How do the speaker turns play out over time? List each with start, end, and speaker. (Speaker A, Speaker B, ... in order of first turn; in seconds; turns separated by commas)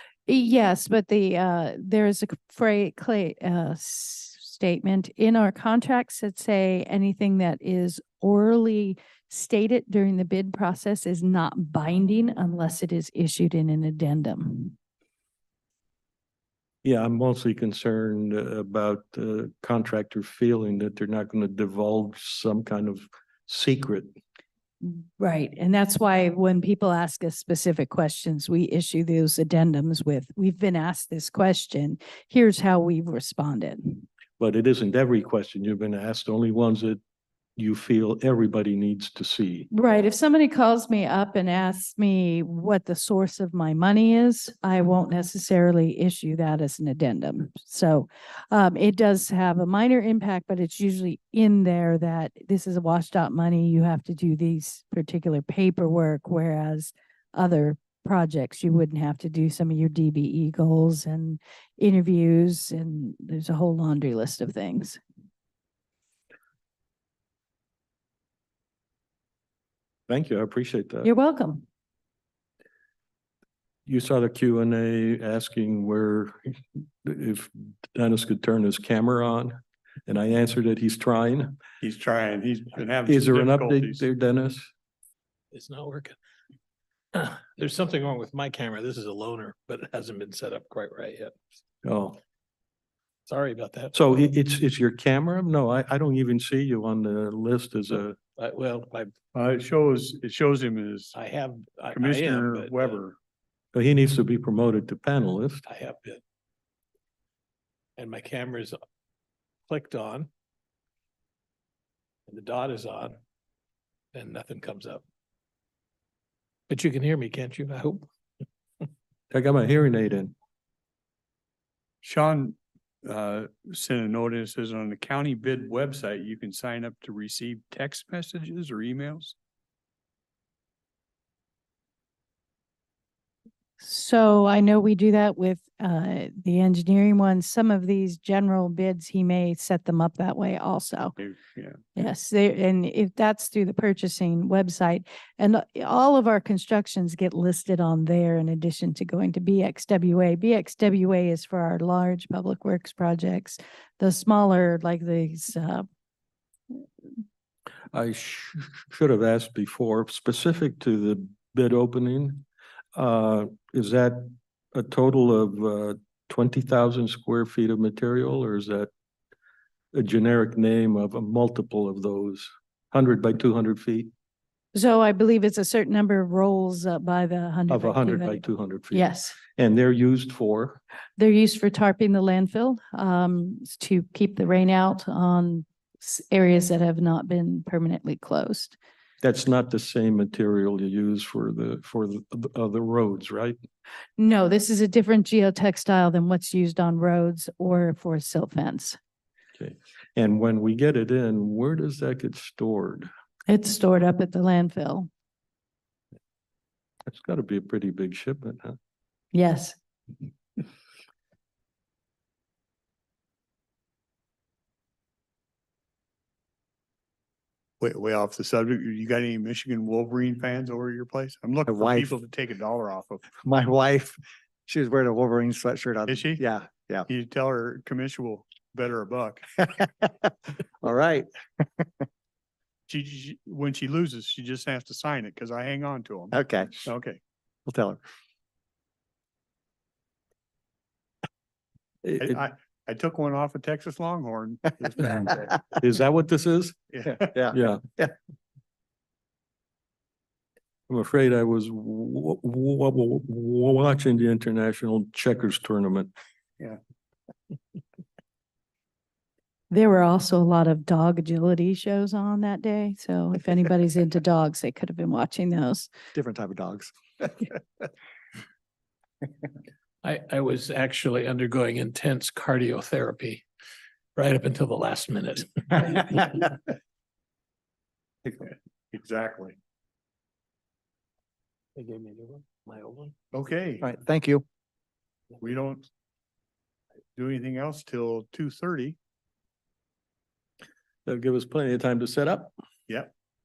Speaker A: 0.3-14.8, Speaker B: 16.8-24.1, Speaker A: 24.8-34.0, Speaker B: 34.4-37.0, Speaker B: 37.6-39.7, Speaker A: 39.7-65.0, Speaker B: 70.1-71.1, Speaker A: 71.0-71.6, Speaker B: 73.8-81.6, Speaker C: 81.8-84.0, Speaker B: 83.0-84.7, Speaker D: 85.5-86.2, Speaker D: 87.1-91.3, Speaker B: 91.8-92.2, Speaker D: 93.3-94.0, Speaker B: 93.9-98.2, Speaker D: 98.4-99.1, Speaker C: 99.3-101.1, Speaker D: 101.1-103.0, Speaker C: 101.9-103.2, Speaker B: 103.7-105.6, Speaker D: 105.7-106.2, Speaker D: 108.0-108.8, Speaker D: 109.7-110.3, Speaker D: 112.3-113.2, Speaker D: 114.1-115.0, Speaker D: 116.7-118.0, Speaker B: 119.3-120.3, Speaker C: 122.0-129.3, Speaker A: 133.8-141.2, Speaker C: 141.2-141.8, Speaker A: 141.9-155.8, Speaker B: 157.9-168.9, Speaker B: 169.9-174.1, Speaker A: 174.7-179.4, Speaker B: 177.7-180.8, Speaker A: 181.2-188.8, Speaker B: 189.2-193.6, Speaker A: 194.2-199.0, Speaker B: 199.6-203.1, Speaker A: 203.5-205.1, Speaker B: 207.1-208.8, Speaker A: 209.3-209.8, Speaker C: 217.8-223.3, Speaker E: 221.7-222.1, Speaker E: 223.4-227.1, Speaker C: 226.1-226.4, Speaker C: 227.1-229.6, Speaker E: 230.8-231.3, Speaker C: 232.9-237.2, Speaker E: 236.3-236.8, Speaker E: 237.7-238.0, Speaker B: 242.0-242.4, Speaker C: 242.2-245.6, Speaker B: 245.8-246.9, Speaker C: 246.9-247.2, Speaker E: 247.1-248.1, Speaker B: 247.5-247.8, Speaker B: 250.9-256.1, Speaker A: 259.7-265.9, Speaker E: 266.1-267.5, Speaker D: 270.0-273.4, Speaker D: 274.1-276.5, Speaker C: 278.9-279.6, Speaker D: 281.8-283.1, Speaker C: 283.3-283.9, Speaker E: 283.8-284.4, Speaker C: 285.4-285.9, Speaker C: 287.1-288.9, Speaker B: 291.1-292.5